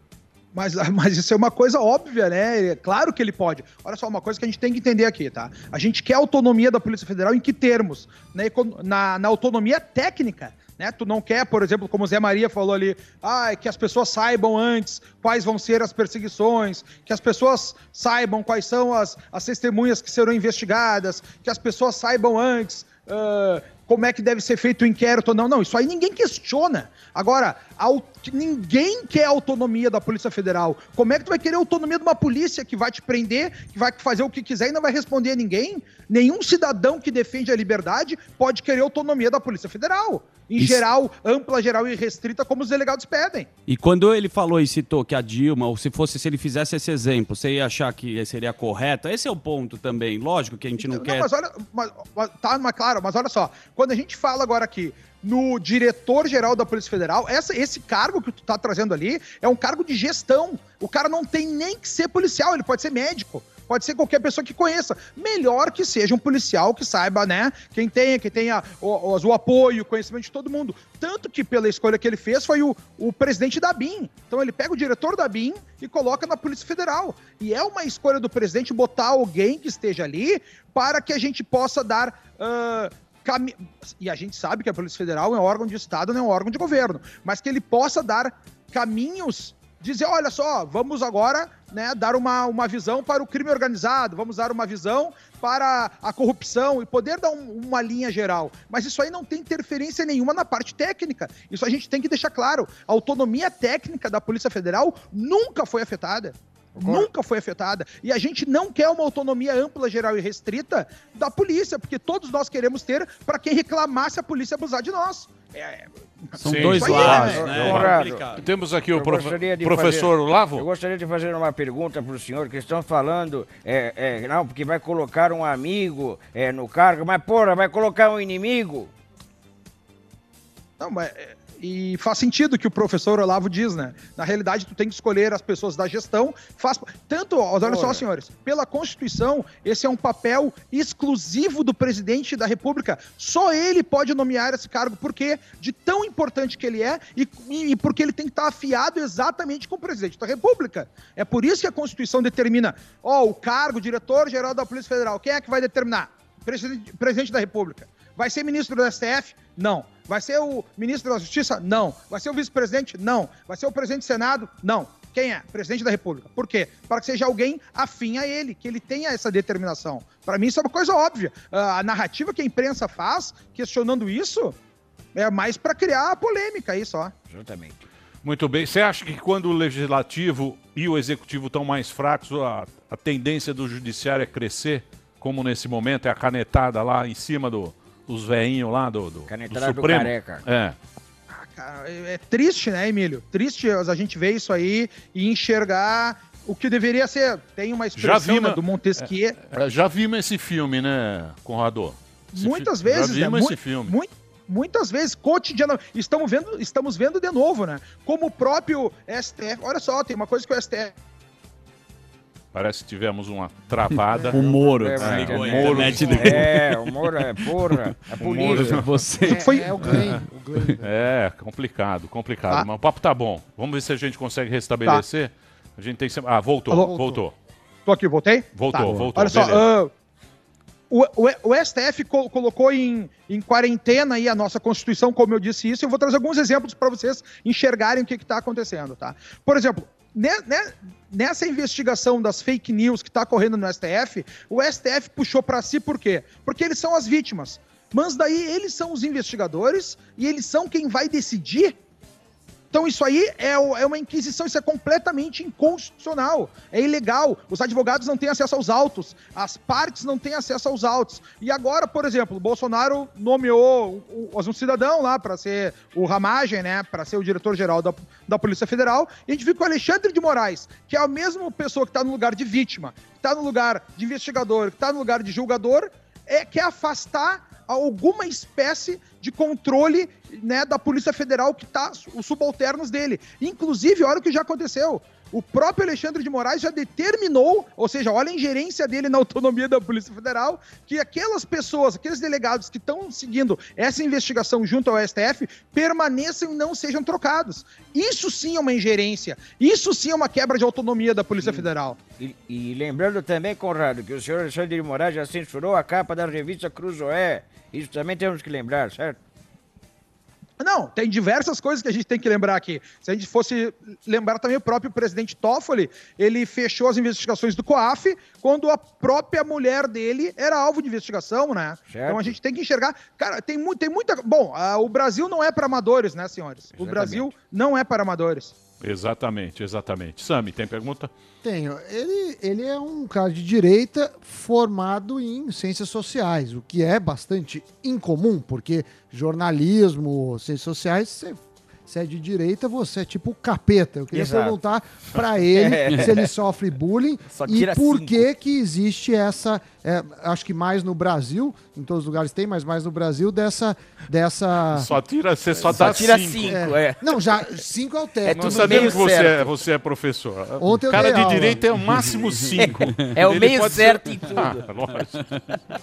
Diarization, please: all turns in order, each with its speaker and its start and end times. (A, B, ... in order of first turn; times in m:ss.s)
0:00.5-0:43.5 A
0:43.7-0:51.3 B
0:50.8-1:55.8 A
1:46.8-1:47.1 C
1:56.4-1:58.4 B
1:56.4-2:00.7 D
1:56.6-1:57.5 A
1:56.7-1:58.2 C
1:58.9-2:08.9 C
2:10.8-2:54.6 A
2:17.6-2:18.0 C
2:55.1-2:57.1 A
2:57.3-2:57.8 C
2:58.2-3:10.8 D
3:09.3-3:10.4 C
3:11.3-3:19.4 A
3:18.0-3:23.9 D
3:22.3-3:30.9 A
3:32.5-3:36.5 D
3:34.2-3:36.8 B
3:34.3-3:38.8 C
3:38.1-3:38.9 D
3:38.2-3:39.9 B
3:39.2-3:40.9 E
3:39.3-3:39.7 A
3:39.8-3:40.2 D
3:40.8-3:47.3 D
3:46.7-3:47.0 A
3:46.7-3:47.2 E
3:47.8-3:49.9 A
3:48.5-3:49.7 D
3:48.7-3:49.1 B
3:50.9-4:11.8 A
4:12.7-5:02.0 A
5:01.4-5:09.2 C
5:10.6-5:28.5 A
5:21.8-5:22.4 C
5:26.8-5:27.3 C
5:28.8-5:31.1 D
5:31.4-5:54.9 E
5:44.1-5:44.6 C
5:45.5-5:46.3 C
5:47.3-5:48.2 C
5:54.7-5:56.6 D
5:55.6-5:57.4 C
5:56.4-5:59.2 E
5:58.2-5:59.4 C
5:58.3-6:05.6 D
6:00.6-6:01.8 E
6:03.1-6:04.7 C